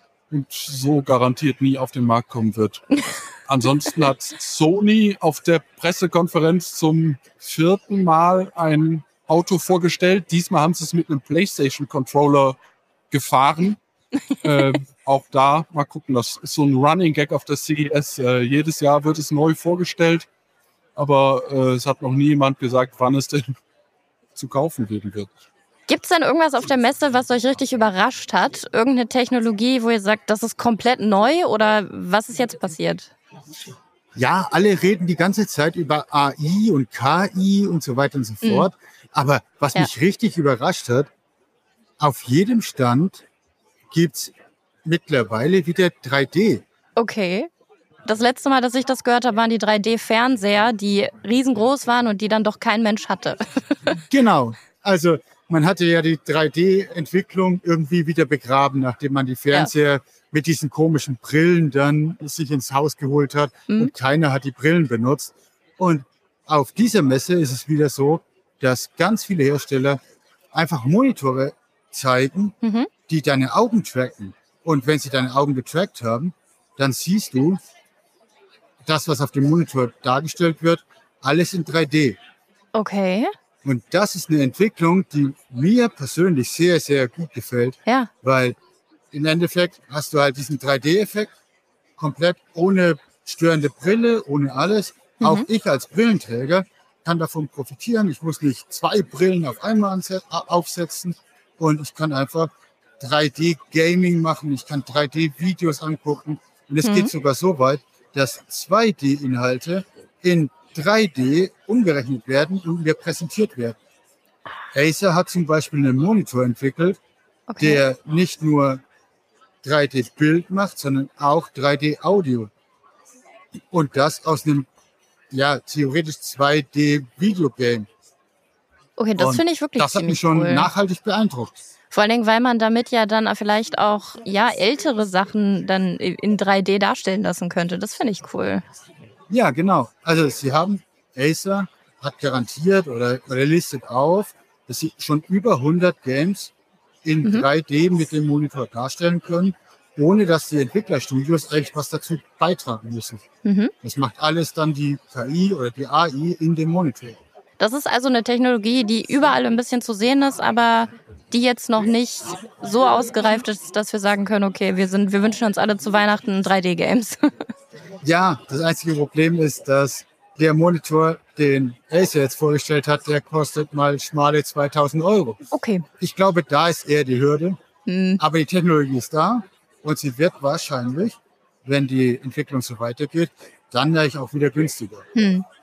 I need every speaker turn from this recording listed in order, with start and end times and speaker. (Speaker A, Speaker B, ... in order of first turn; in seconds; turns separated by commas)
Speaker A: 0.3-12.6, Speaker A: 13.1-13.8, Speaker A: 14.4-20.3, Speaker A: 21.0-23.5, Speaker A: 24.4-25.3, Speaker B: 25.9-33.1, Speaker C: 34.1-41.1, Speaker B: 38.4-38.7, Speaker C: 42.0-43.2, Speaker C: 43.9-44.3, Speaker C: 44.9-46.6, Speaker B: 47.0-47.5, Speaker B: 48.1-53.6, Speaker C: 54.0-70.0, Speaker C: 70.5-72.5, Speaker B: 72.6-72.9, Speaker C: 73.1-77.6, Speaker C: 78.8-82.2, Speaker B: 82.7-83.3, Speaker C: 83.6-88.6, Speaker C: 89.1-91.3, Speaker C: 92.0-113.8, Speaker B: 95.2-95.5, Speaker B: 106.8-107.1, Speaker C: 114.7-117.0, Speaker B: 117.5-117.8, Speaker C: 117.6-118.8, Speaker C: 119.6-122.5, Speaker C: 123.7-124.7, Speaker C: 125.3-127.9, Speaker B: 129.0-130.7, Speaker C: 129.2-131.6, Speaker B: 131.9-138.6, Speaker C: 139.3-146.5, Speaker C: 147.0-153.2, Speaker B: 153.4-153.7, Speaker C: 153.8-157.2, Speaker B: 157.6-167.3, Speaker C: 168.0-175.4, Speaker B: 175.5-175.8, Speaker C: 176.0-177.6, Speaker B: 177.9-178.2, Speaker C: 178.2-185.1, Speaker B: 185.2-185.5